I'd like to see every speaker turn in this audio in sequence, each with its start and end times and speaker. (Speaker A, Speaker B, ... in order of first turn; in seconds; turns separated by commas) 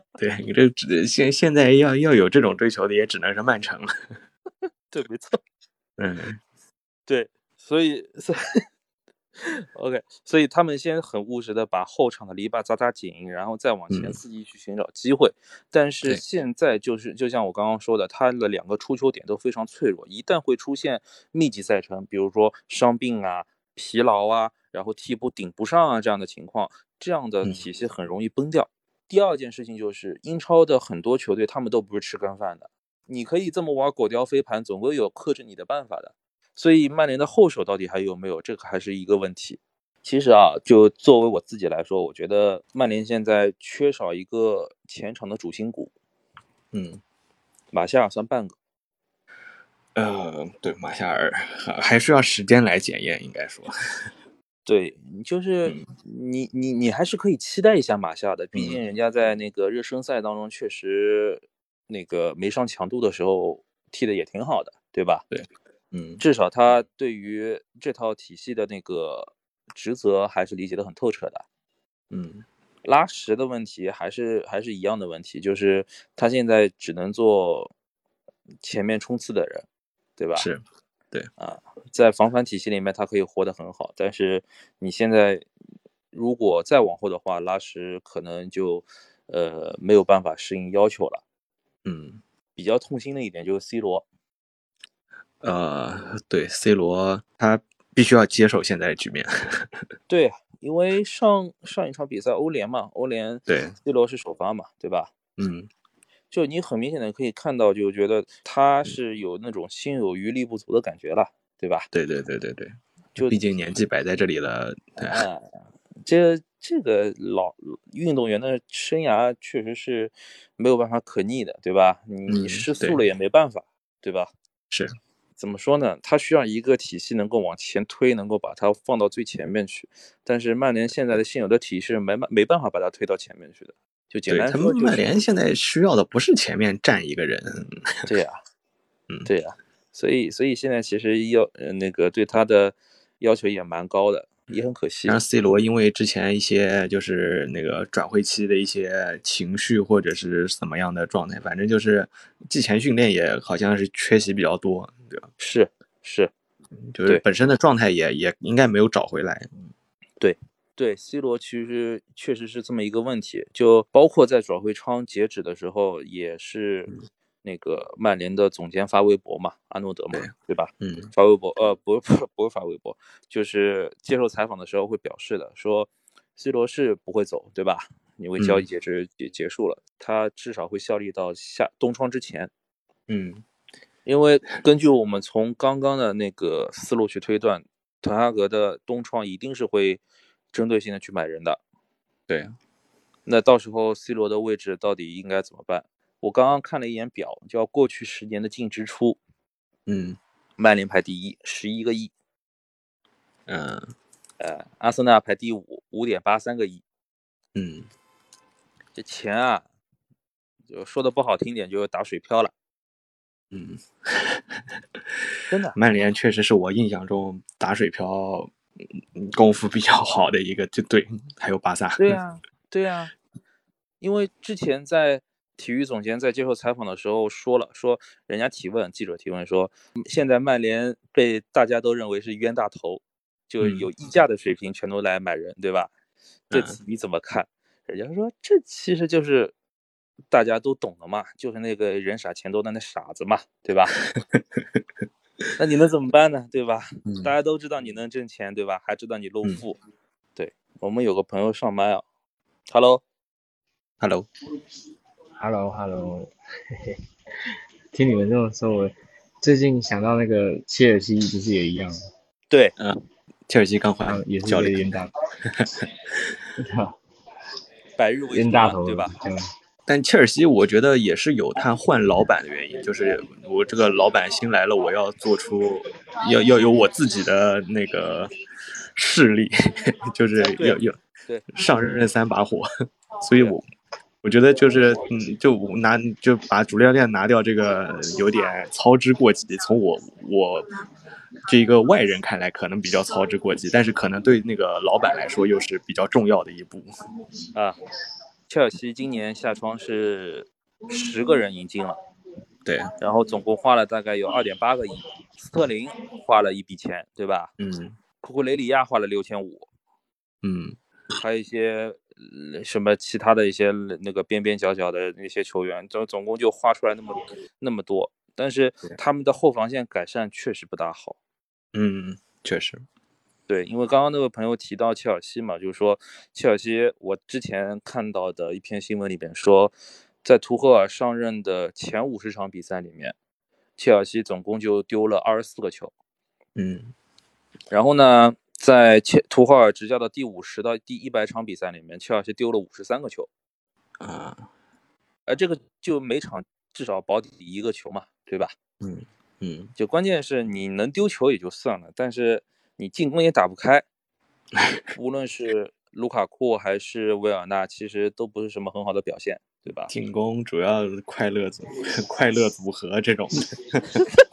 Speaker A: 0.2-3.9, Speaker B: 4.9-5.4, Speaker A: 6.0-6.4, Speaker B: 7.1-8.6, Speaker B: 9.4-45.9, Speaker A: 13.9-14.2, Speaker A: 46.7-47.0, Speaker B: 47.7-48.5, Speaker A: 49.9-54.0, Speaker B: 54.6-65.2, Speaker A: 58.5-58.8, Speaker A: 65.3-66.2, Speaker B: 66.2-71.4, Speaker A: 72.1-72.4, Speaker B: 72.8-77.7, Speaker B: 78.6-79.7, Speaker B: 80.2-80.5, Speaker A: 80.3-81.3, Speaker B: 81.4-85.5, Speaker B: 86.1-91.2, Speaker A: 91.8-92.2, Speaker B: 92.5-94.0, Speaker A: 95.4-99.7, Speaker B: 100.1-105.1, Speaker A: 103.5-103.7, Speaker A: 105.4-105.7, Speaker B: 106.3-111.9, Speaker A: 111.9-115.2, Speaker B: 113.2-113.4, Speaker B: 115.1-115.4, Speaker B: 116.0-124.3, Speaker A: 122.3-123.0, Speaker B: 125.4-135.2, Speaker A: 134.3-138.0, Speaker B: 138.1-138.4, Speaker B: 139.2-145.2, Speaker A: 145.1-155.3, Speaker B: 155.4-156.3, Speaker A: 156.9-159.5, Speaker B: 160.2-166.9, Speaker B: 167.4-182.5, Speaker A: 170.8-171.1, Speaker A: 178.4-178.6, Speaker A: 183.1-183.4, Speaker B: 184.1-190.0, Speaker B: 190.5-191.6, Speaker A: 192.3-192.6, Speaker B: 193.2-199.2, Speaker A: 199.9-200.2, Speaker B: 200.6-202.1, Speaker A: 203.5-203.9, Speaker B: 204.4-206.8, Speaker A: 207.5-207.9, Speaker B: 208.9-209.6, Speaker B: 210.7-212.5, Speaker A: 213.5-214.7, Speaker B: 215.5-215.8, Speaker A: 215.7-218.5, Speaker A: 219.2-222.2, Speaker B: 222.0-223.1, Speaker B: 224.0-235.9, Speaker A: 233.6-233.9, Speaker A: 236.5-236.8, Speaker B: 236.5-239.5, Speaker B: 240.3-244.0, Speaker A: 244.1-244.8, Speaker B: 245.6-249.8, Speaker A: 247.1-247.3, Speaker B: 250.3-252.0, Speaker B: 252.7-253.0, Speaker A: 254.0-254.2, Speaker C: 255.4-257.0, Speaker C: 257.9-262.0, Speaker A: 262.8-264.9, Speaker C: 264.1-265.1, Speaker A: 265.5-265.9, Speaker C: 266.6-266.9, Speaker B: 268.0-269.1, Speaker C: 268.3-269.4, Speaker A: 269.9-278.3, Speaker A: 278.9-279.5, Speaker A: 280.1-281.0, Speaker B: 280.4-281.5, Speaker A: 281.5-282.7, Speaker A: 283.2-283.6, Speaker A: 284.2-290.7, Speaker A: 291.4-296.9, Speaker B: 298.5-302.0, Speaker A: 302.6-302.9, Speaker B: 303.0-307.5, Speaker A: 307.6-308.0, Speaker B: 308.2-309.7, Speaker A: 310.4-310.8, Speaker B: 311.2-321.2, Speaker A: 321.7-322.8, Speaker B: 323.5-333.1, Speaker B: 333.8-335.9, Speaker A: 336.6-336.9, Speaker B: 337.7-343.3, Speaker A: 344.0-344.4, Speaker B: 345.3-348.5, Speaker A: 348.8-349.7, Speaker B: 349.8-353.8, Speaker A: 354.5-354.8, Speaker B: 354.9-359.9, Speaker A: 359.9-364.0